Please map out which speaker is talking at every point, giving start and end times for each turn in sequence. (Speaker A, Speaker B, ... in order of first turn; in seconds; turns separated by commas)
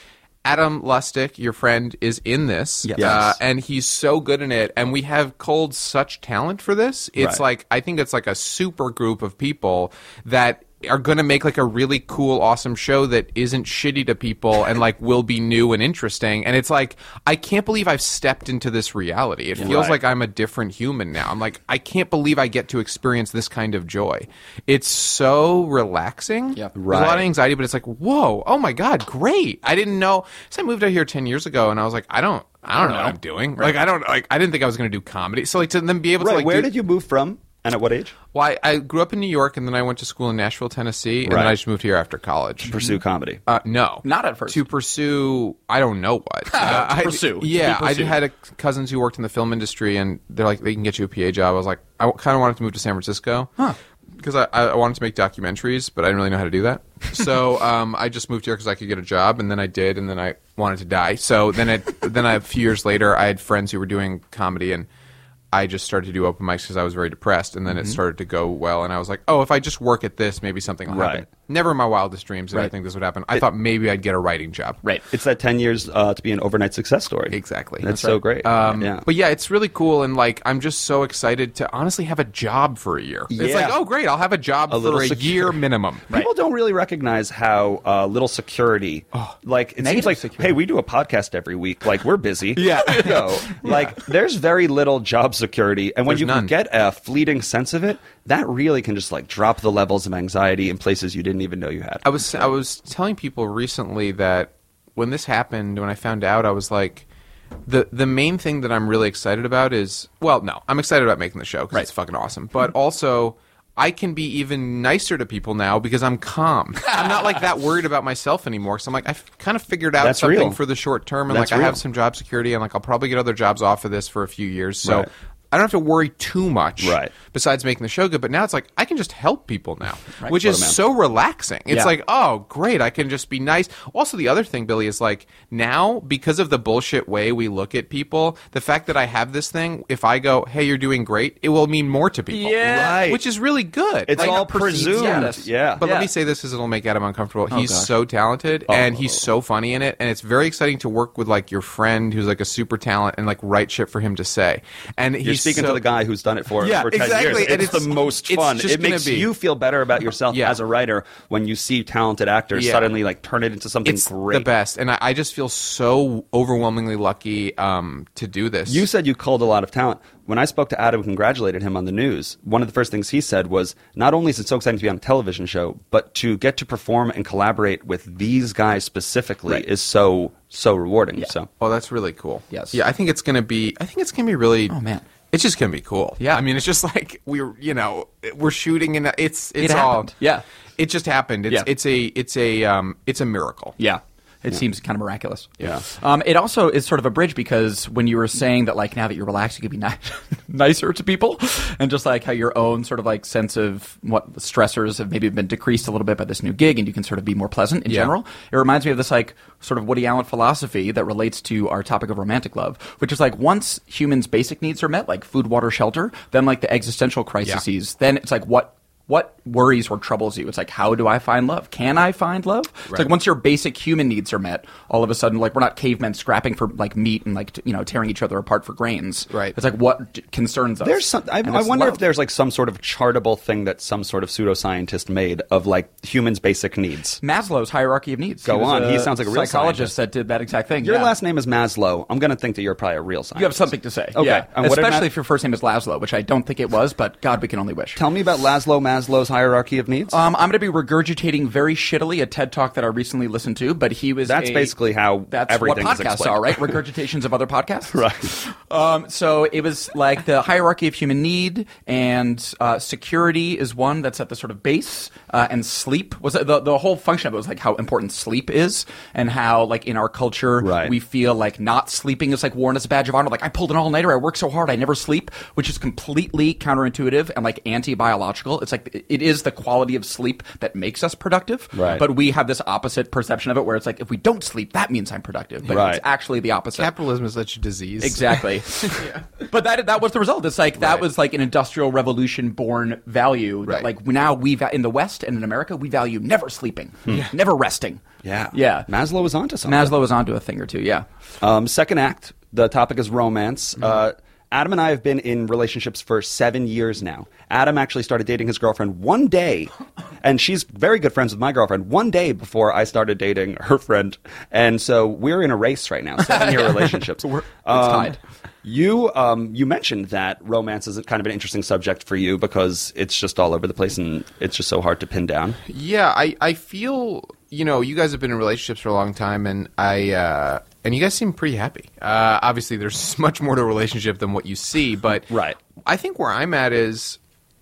Speaker A: 0.5-36.7, Speaker B: 2.9-3.4, Speaker B: 7.2-7.4, Speaker B: 19.6-20.0, Speaker B: 26.8-27.3, Speaker C: 32.8-33.1, Speaker B: 36.2-38.1, Speaker A: 38.3-42.7, Speaker B: 41.2-41.5, Speaker B: 42.7-43.4, Speaker A: 43.5-53.5, Speaker C: 44.0-44.7, Speaker C: 46.5-48.2, Speaker A: 54.2-64.9, Speaker A: 65.5-74.8, Speaker C: 67.7-68.0, Speaker B: 70.9-71.2, Speaker B: 75.1-79.0, Speaker A: 77.3-86.1, Speaker B: 83.3-83.8, Speaker B: 84.7-85.6, Speaker B: 86.1-102.5, Speaker C: 89.8-90.6, Speaker C: 92.6-93.8, Speaker A: 92.6-93.3, Speaker A: 96.1-96.5, Speaker A: 102.0-107.1, Speaker A: 107.7-155.8, Speaker B: 120.0-120.6, Speaker B: 121.3-121.8, Speaker B: 124.8-125.1, Speaker B: 126.8-127.1, Speaker B: 130.3-130.8, Speaker C: 142.3-143.1, Speaker B: 142.6-143.2, Speaker B: 144.1-145.8, Speaker C: 144.2-146.1, Speaker C: 147.5-147.9, Speaker B: 155.2-164.5, Speaker A: 156.6-159.3, Speaker A: 160.3-160.6, Speaker A: 162.6-162.9, Speaker A: 163.8-168.9, Speaker B: 168.7-181.5, Speaker A: 181.6-184.8, Speaker C: 182.5-182.8, Speaker C: 184.7-185.1, Speaker A: 185.3-190.2, Speaker C: 189.6-190.4, Speaker A: 190.8-193.8, Speaker C: 193.8-232.0, Speaker B: 230.8-237.2, Speaker C: 237.2-241.1, Speaker B: 238.4-239.9, Speaker B: 240.8-245.1, Speaker C: 243.3-248.0, Speaker B: 247.9-250.2, Speaker C: 250.1-286.9, Speaker B: 254.2-256.8, Speaker B: 257.9-258.3, Speaker B: 270.6-270.9, Speaker B: 281.7-282.1, Speaker B: 285.7-286.0, Speaker A: 286.7-289.2, Speaker C: 288.0-298.9, Speaker B: 298.2-299.9, Speaker C: 299.6-301.1, Speaker B: 301.4-325.6, Speaker C: 316.2-318.2, Speaker A: 325.7-335.3, Speaker B: 335.3-335.6, Speaker A: 335.9-337.2